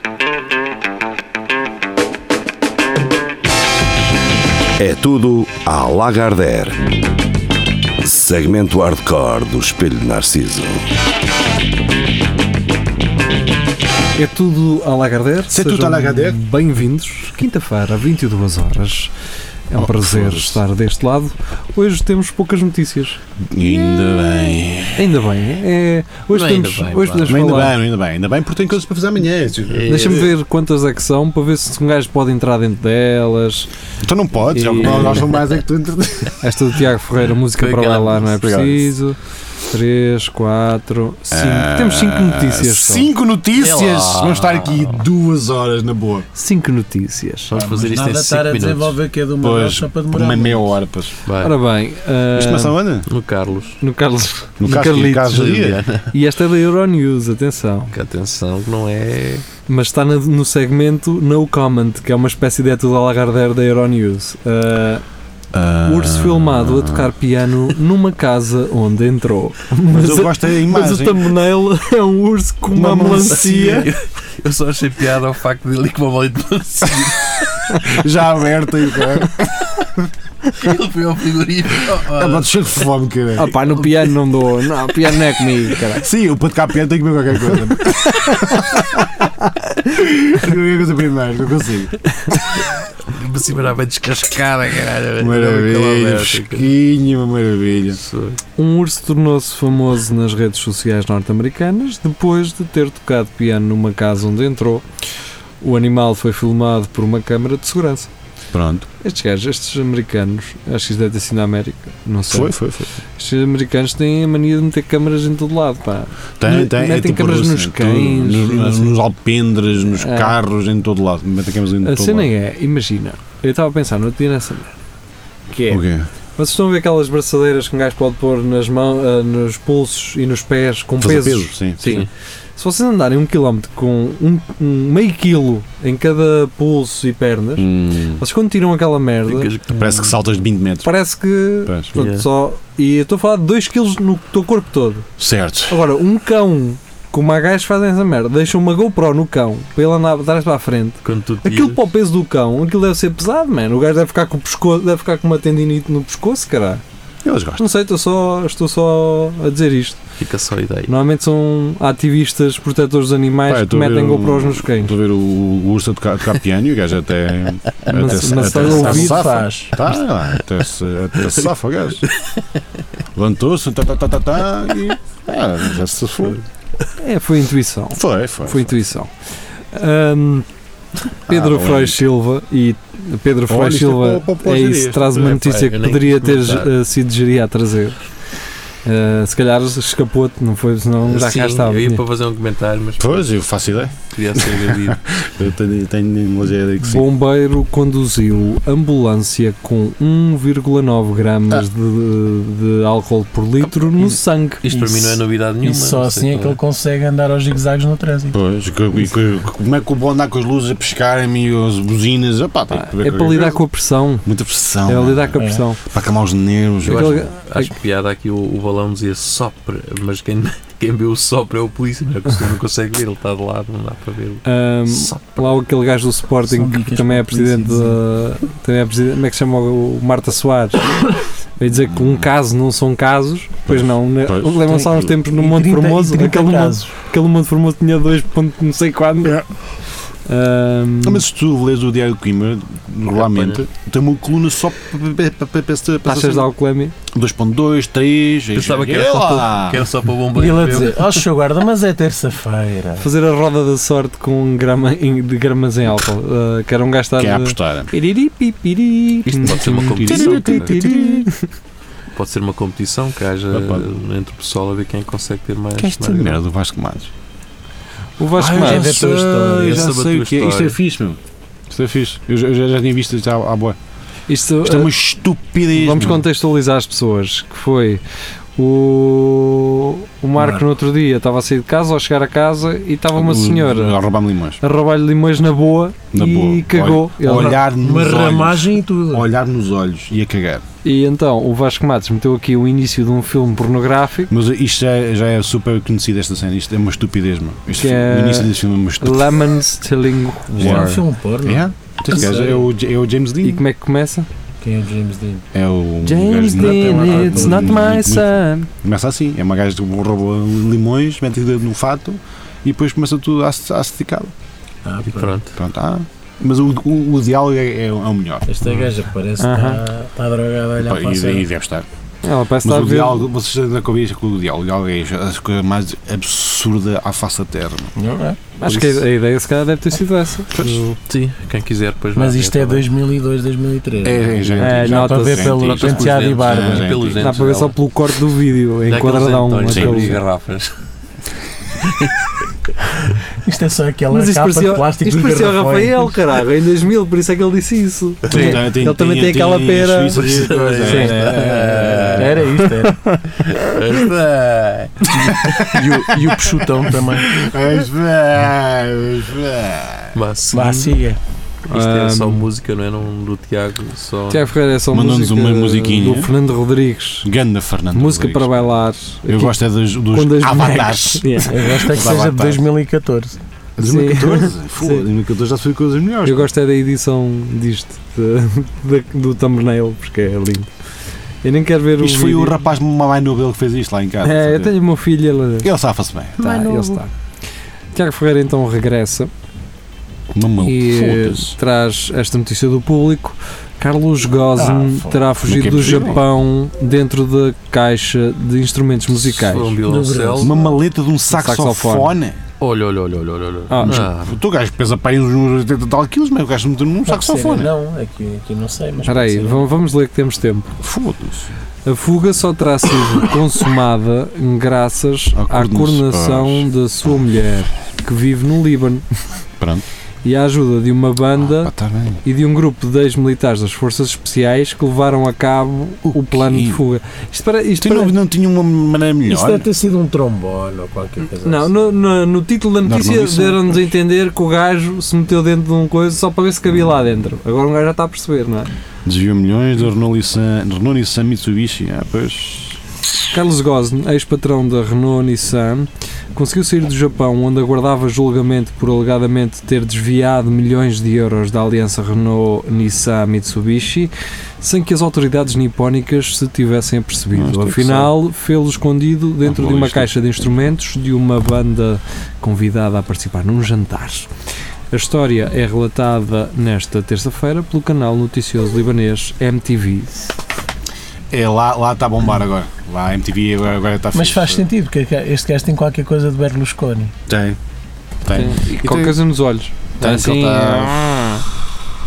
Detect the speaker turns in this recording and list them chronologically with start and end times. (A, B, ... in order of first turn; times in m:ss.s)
0:04.8-0:06.8 A
0:08.0-0:10.9 A
0:14.1-0:19.1 B
0:15.5-0:16.4 C
0:19.7-0:23.2 B
0:19.8-0:20.6 C
0:23.5-0:25.3 C
0:25.0-0:27.8 B
0:26.3-0:27.7 D
0:27.3-0:30.3 C
0:29.7-0:30.4 D
0:29.8-0:33.7 B
0:34.0-0:36.5 C
0:34.5-0:35.3 B
0:34.7-0:35.4 D
0:36.4-0:39.2 B
0:37.6-0:38.4 D
0:38.4-0:38.9 C
0:39.7-0:43.1 B
0:41.3-0:46.3 C
0:43.6-0:45.0 D
0:46.3-0:47.6 B
0:47.5-0:49.0 D
0:47.5-0:50.7 E
0:49.4-0:51.2 C
0:51.2-0:51.6 D
0:51.4-0:52.8 B
0:52.3-0:53.1 C
0:53.1-0:53.8 D
0:53.8-0:55.5 B
0:54.6-0:55.8 C
0:55.3-0:56.1 D
0:56.1-0:57.9 B
0:57.9-0:59.5 D
0:59.7-1:05.0 B
1:05.5-1:07.1 C
1:05.8-1:13.9 B
1:09.9-1:11.4 C
1:12.7-1:13.7 C
1:13.2-1:17.9 D
1:17.8-1:20.0 C
1:20.6-1:22.5 D
1:22.0-1:23.6 C
1:23.3-1:26.0 B
1:23.4-1:24.2 D
1:26.0-1:29.3 C
1:29.8-1:32.0 C
1:32.6-1:36.7 D
1:35.2-1:38.0 C
1:38.0-1:38.4 D
1:38.6-1:44.8 B
1:45.6-1:48.1 B
1:48.5-1:48.9 C
1:49.0-1:59.0 B
1:52.3-1:52.9 C
1:56.4-2:02.3 C
1:59.9-2:00.4 B
2:01.8-2:04.7 B
2:05.5-2:05.8 B
2:05.7-2:06.1 C
2:06.4-2:19.5 B
2:11.0-2:11.9 C
2:11.8-2:12.1 D
2:17.6-2:18.2 C
2:19.3-2:20.1 D
2:19.6-2:20.9 C
2:20.8-2:25.1 B
2:21.7-2:21.9 C
2:21.9-2:22.3 D
2:25.2-2:25.8 C
2:25.7-2:36.8 B
2:31.0-2:31.8 D
2:37.2-2:37.7 C
2:37.6-2:40.0 B
2:40.2-2:40.9 D
2:40.9-2:45.0 B
2:43.4-2:52.1 C
2:47.9-2:49.2 B
2:48.3-2:49.8 E
2:52.0-2:52.4 D
2:53.1-2:56.4 C
2:57.0-3:00.4 B
2:57.9-2:58.9 C
3:01.3-3:02.0 C
3:01.3-3:08.0 B
3:03.5-3:05.3 C
3:05.1-3:06.7 D
3:08.8-3:12.0 B
3:11.0-3:13.3 D
3:13.0-3:17.1 C
3:14.1-3:15.1 D
3:16.8-3:24.6 B
3:24.6-3:26.6 D
3:24.7-3:28.4 E
3:28.3-3:33.6 C
3:32.7-3:34.3 B
3:34.2-3:37.3 C
3:34.8-3:35.8 B
3:35.4-3:35.6 E
3:36.8-3:44.4 D
3:36.9-3:37.7 B
3:44.4-3:51.0 B
3:46.4-3:48.0 E
3:51.6-3:59.4 B
3:51.7-3:52.3 C
3:53.7-3:54.6 C
3:54.7-3:57.0 E
4:00.2-4:01.2 B
4:01.0-4:06.5 C
4:03.1-4:03.6 D
4:06.0-4:06.9 B
4:07.1-4:09.8 C
4:08.5-4:11.2 D
4:10.4-4:13.1 E
4:13.0-4:21.5 B
4:17.2-4:17.9 C
4:19.2-4:20.8 D
4:20.0-4:21.3 C
4:22.1-4:26.4 D
4:23.5-4:23.9 C
4:25.8-4:27.1 C
4:28.2-4:29.0 B
4:28.4-4:31.2 C
4:28.4-4:29.9 E
4:29.5-4:30.8 D
4:31.7-4:33.8 C
4:34.3-4:34.9 B
4:34.6-4:36.2 C
4:35.7-4:38.0 B
4:38.6-4:44.0 B
4:40.4-4:40.6 E
4:43.1-4:44.6 C
4:44.6-4:47.6 B
4:46.1-4:50.6 C
4:47.6-4:49.3 E
4:50.8-4:54.3 B
4:54.3-4:59.4 C
4:57.8-5:01.0 B
5:00.6-5:03.6 C
5:00.6-5:02.7 E
5:03.4-5:04.3 B
5:04.6-5:05.4 E
5:05.5-5:14.3 C
5:06.0-5:08.7 B
5:06.5-5:07.9 E
5:14.8-5:15.4 E
5:15.1-5:15.5 D
5:15.6-5:18.5 C
5:18.5-5:21.4 E
5:18.6-5:18.9 D
5:19.4-5:19.8 B
5:20.8-5:21.9 C
5:22.2-5:23.2 B
5:22.6-5:27.9 C
5:28.0-5:28.4 E
5:28.6-5:30.9 B
5:28.6-5:29.0 D
5:30.5-5:30.8 C
5:31.0-5:32.9 D
5:32.1-5:36.9 E
5:34.0-5:37.3 C
5:34.6-5:35.6 B
5:35.6-5:37.8 D
5:37.2-5:40.2 B
5:38.9-5:40.8 D
5:39.7-5:40.2 C
5:41.8-5:42.3 D
5:43.4-5:46.2 E
5:44.1-5:50.2 B
5:48.3-5:52.4 C
5:48.3-5:48.6 E
5:50.1-5:52.4 D
5:50.8-5:53.0 E
5:52.6-5:53.2 B
5:53.4-5:55.6 D
5:55.2-5:57.4 E
5:55.3-5:56.0 C
5:57.2-6:00.1 C
6:00.1-6:01.0 D
6:00.5-6:01.2 E
6:01.7-6:04.5 D
6:01.7-6:02.5 B
6:04.3-6:07.3 B
6:04.9-6:06.3 C
6:07.2-6:08.7 C
6:07.9-6:09.6 B
6:09.3-6:12.6 C
6:10.1-6:12.0 B
6:11.5-6:13.4 E
6:13.8-6:16.5 C
6:13.8-6:15.1 B
6:16.2-6:20.7 B
6:21.4-6:22.6 B
6:22.0-6:24.8 C
6:24.2-6:25.7 B
6:25.6-6:26.6 C
6:26.4-6:27.1 B
6:26.4-6:27.0 E
6:27.9-6:29.3 B
6:30.3-6:31.6 C
6:30.6-6:39.8 B
6:34.6-6:35.2 E
6:35.4-6:36.2 C
6:39.3-6:40.5 D
6:39.8-6:40.8 E
6:40.4-6:42.4 C
6:41.3-6:42.2 B
6:42.6-6:44.4 D
6:43.7-6:44.0 B
6:43.8-6:47.7 C
6:47.1-6:49.7 E
6:49.0-6:50.7 B
6:50.8-6:51.5 C
6:51.8-6:59.0 B
6:55.3-6:56.7 C
6:59.6-6:59.8 C
7:00.2-7:01.7 B
7:01.4-7:02.2 C
7:02.2-7:08.2 B
7:06.0-7:06.8 C
7:07.8-7:09.7 C
7:09.3-7:11.7 E
7:11.4-7:18.7 B
7:12.8-7:13.8 C
7:19.0-7:22.8 C
7:23.3-7:44.3 B
7:37.3-7:38.2 C
7:39.4-7:40.1 C
7:44.9-7:50.2 B
7:51.3-7:54.6 C
7:54.1-7:57.1 E
7:57.3-7:57.6 C
7:58.2-7:59.2 C
7:58.3-8:01.4 B
8:00.0-8:01.2 C